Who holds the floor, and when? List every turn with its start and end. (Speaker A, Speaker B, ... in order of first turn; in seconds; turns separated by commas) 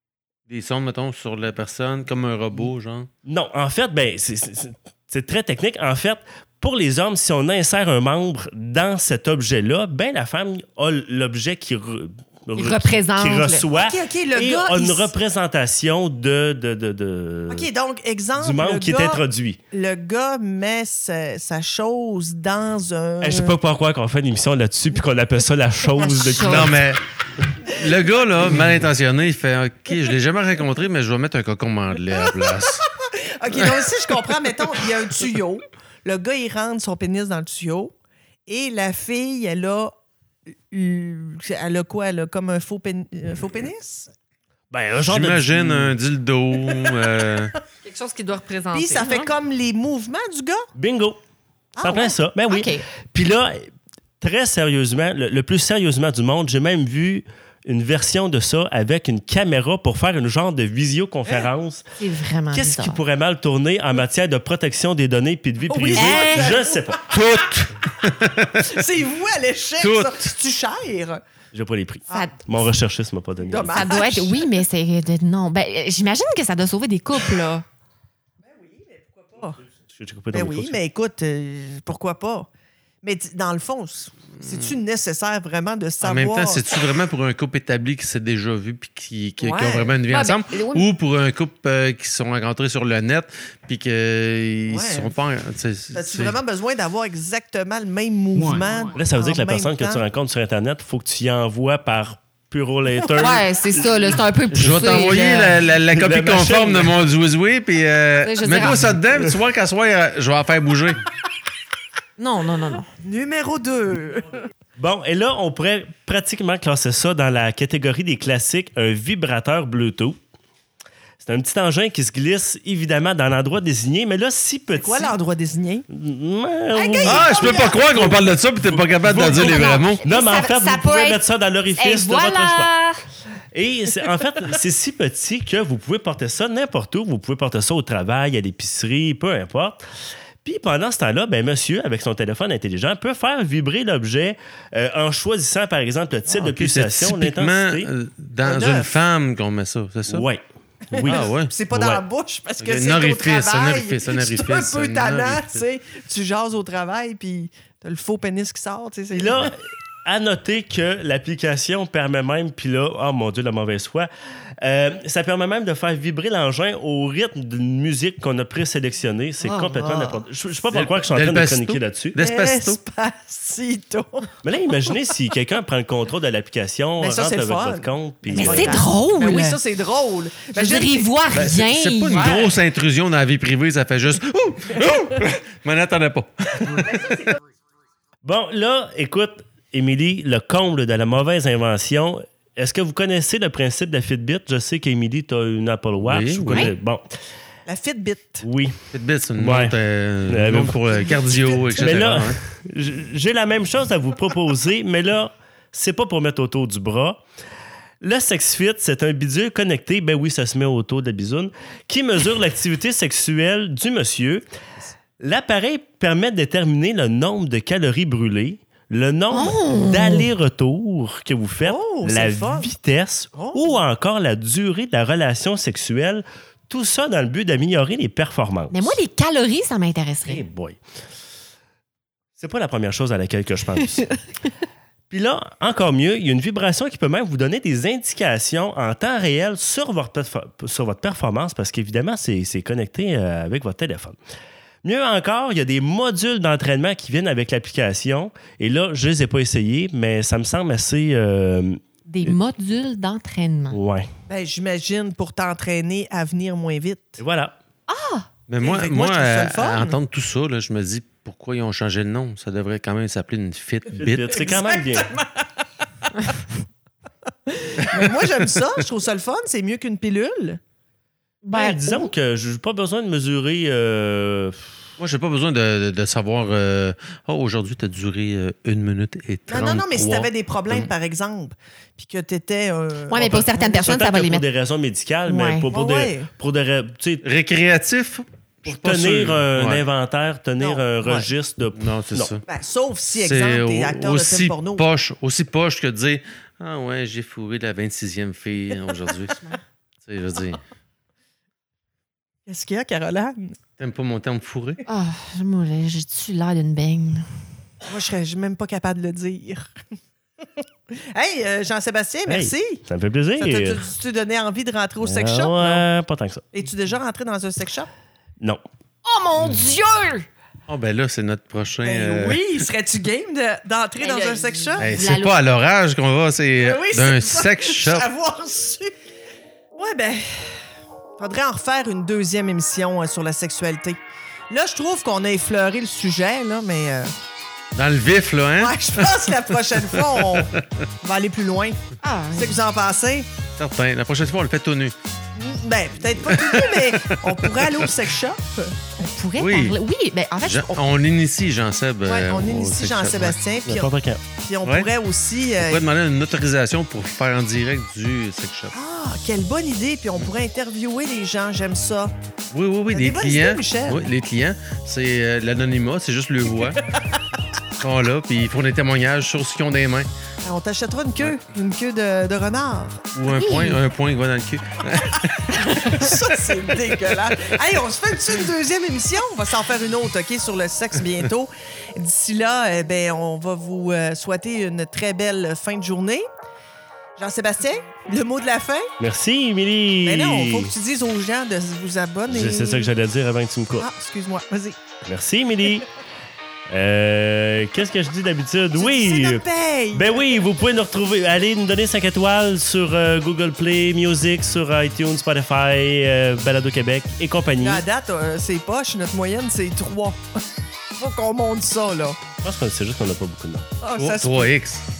Speaker A: 0.5-3.1, Speaker B: 3.2-17.7, Speaker C: 12.6-13.7, Speaker D: 13.7-15.1, Speaker D: 17.5-23.6, Speaker B: 18.4-19.6, Speaker B: 23.2-26.9, Speaker C: 26.0-26.8, Speaker A: 26.4-32.8, Speaker D: 33.1-37.9, Speaker D: 38.5-39.9, Speaker D: 40.5-44.1, Speaker B: 44.7-45.9, Speaker A: 45.0-47.5, Speaker C: 47.8-49.3, Speaker D: 48.7-50.7, Speaker B: 50.8-51.2, Speaker D: 51.8-52.2, Speaker B: 51.8-53.7, Speaker C: 52.5-52.8, Speaker B: 54.2-61.8, Speaker C: 62.0-63.0, Speaker B: 62.5-67.1, Speaker D: 65.7-67.4, Speaker C: 65.9-66.6, Speaker A: 67.1-68.7, Speaker D: 68.5-71.2, Speaker A: 69.8-70.3, Speaker B: 71.5-74.0, Speaker C: 72.1-72.4, Speaker D: 73.4-74.5, Speaker C: 73.8-77.6, Speaker D: 78.4-79.6, Speaker B: 79.9-80.8, Speaker D: 80.3-82.5, Speaker D: 83.0-86.6, Speaker A: 86.0-96.4, Speaker D: 89.4-89.9, Speaker C: 90.1-90.9, Speaker D: 94.7-95.2, Speaker D: 95.9-100.0, Speaker B: 98.6-104.2, Speaker C: 103.2-105.6, Speaker A: 104.5-111.0, Speaker B: 105.9-106.9, Speaker C: 108.2-109.0, Speaker C: 112.2-112.9, Speaker D: 113.0-114.4, Speaker B: 114.8-120.2, Speaker B: 121.2-125.1, Speaker D: 124.7-125.8, Speaker B: 125.9-132.7, Speaker D: 126.7-127.7, Speaker A: 127.0-130.0, Speaker C: 127.4-127.8, Speaker C: 129.2-131.2, Speaker C: 131.8-133.0, Speaker B: 133.5-139.8, Speaker B: 140.4-147.9, Speaker A: 146.3-150.2, Speaker D: 148.4-148.9, Speaker B: 150.1-150.4, Speaker D: 150.9-159.5, Speaker A: 150.9-151.5, Speaker B: 150.9-152.0, Speaker A: 152.6-155.6, Speaker B: 159.1-164.1, Speaker B: 164.6-172.2, Speaker D: 169.4-170.2, Speaker A: 170.7-172.8, Speaker D: 172.2-174.9, Speaker B: 174.4-178.9, Speaker D: 177.0-181.1, Speaker C: 178.3-179.6, Speaker C: 180.5-182.5, Speaker A: 181.3-187.0, Speaker D: 182.1-182.5, Speaker B: 188.2-197.0, Speaker A: 196.0-196.7, Speaker D: 197.7-198.4, Speaker B: 198.4-198.8, Speaker A: 198.9-202.4, Speaker B: 199.4-199.7, Speaker B: 200.3-201.0, Speaker B: 201.5-207.2, Speaker B: 208.0-214.4, Speaker B: 215.2-228.9, Speaker C: 219.3-220.3, Speaker D: 221.6-222.7, Speaker D: 223.3-223.8, Speaker C: 228.7-230.4, Speaker B: 230.2-230.8, Speaker B: 232.4-234.0, Speaker B: 235.1-244.2, Speaker B: 244.8-252.4, Speaker C: 252.1-253.8, Speaker B: 253.7-254.1, Speaker D: 254.3-257.2, Speaker B: 257.2-257.5, Speaker C: 257.9-258.3, Speaker A: 258.5-264.4, Speaker D: 258.6-260.0, Speaker B: 263.9-265.1, Speaker D: 264.3-265.4, Speaker D: 267.5-270.6, Speaker A: 267.8-268.2, Speaker C: 271.4-272.1, Speaker B: 271.5-274.7, Speaker A: 275.0-280.9, Speaker D: 279.5-283.6, Speaker C: 283.1-284.4, Speaker B: 283.1-287.2, Speaker C: 285.2-285.7, Speaker D: 285.7-286.3, Speaker A: 287.2-289.8, Speaker B: 288.6-292.3, Speaker D: 290.6-291.3, Speaker A: 291.7-292.4, Speaker D: 292.4-294.9, Speaker A: 293.1-299.4, Speaker A: 300.0-300.6, Speaker D: 302.5-303.5, Speaker A: 303.8-304.8, Speaker C: 304.9-307.3, Speaker D: 307.9-309.7, Speaker D: 310.6-312.8, Speaker B: 312.3-313.9, Speaker D: 313.4-315.9, Speaker B: 315.0-316.4, Speaker D: 316.5-317.9, Speaker C: 319.0-320.3, Speaker A: 320.7-322.6, Speaker D: 321.8-324.9, Speaker C: 324.0-325.4, Speaker A: 324.8-328.1, Speaker D: 326.6-328.9, Speaker D: 329.8-330.7, Speaker D: 331.2-337.1, Speaker A: 337.7-340.6, Speaker D: 338.6-341.8, Speaker C: 342.0-342.6, Speaker D: 342.3-343.3, Speaker A: 343.6-344.9, Speaker D: 345.3-348.9, Speaker A: 346.2-348.0, Speaker C: 349.0-350.9, Speaker A: 349.4-349.8, Speaker A: 350.4-353.4, Speaker D: 352.1-355.8, Speaker B: 353.6-354.2, Speaker A: 355.6-358.7, Speaker D: 358.7-362.1, Speaker A: 362.5-366.8, Speaker D: 362.9-364.1, Speaker A: 367.8-370.1, Speaker D: 370.4-373.0, Speaker A: 373.1-375.4, Speaker C: 373.3-373.8, Speaker C: 375.6-376.1, Speaker D: 375.8-386.3, Speaker D: 387.2-388.9, Speaker B: 389.0-390.7, Speaker D: 390.0-392.9, Speaker B: 392.3-393.9, Speaker D: 393.8-394.8, Speaker B: 395.0-395.9, Speaker B: 396.7-407.8, Speaker D: 398.7-400.2, Speaker D: 407.6-412.2, Speaker B: 412.4-413.7, Speaker D: 413.8-414.5, Speaker A: 414.0-414.8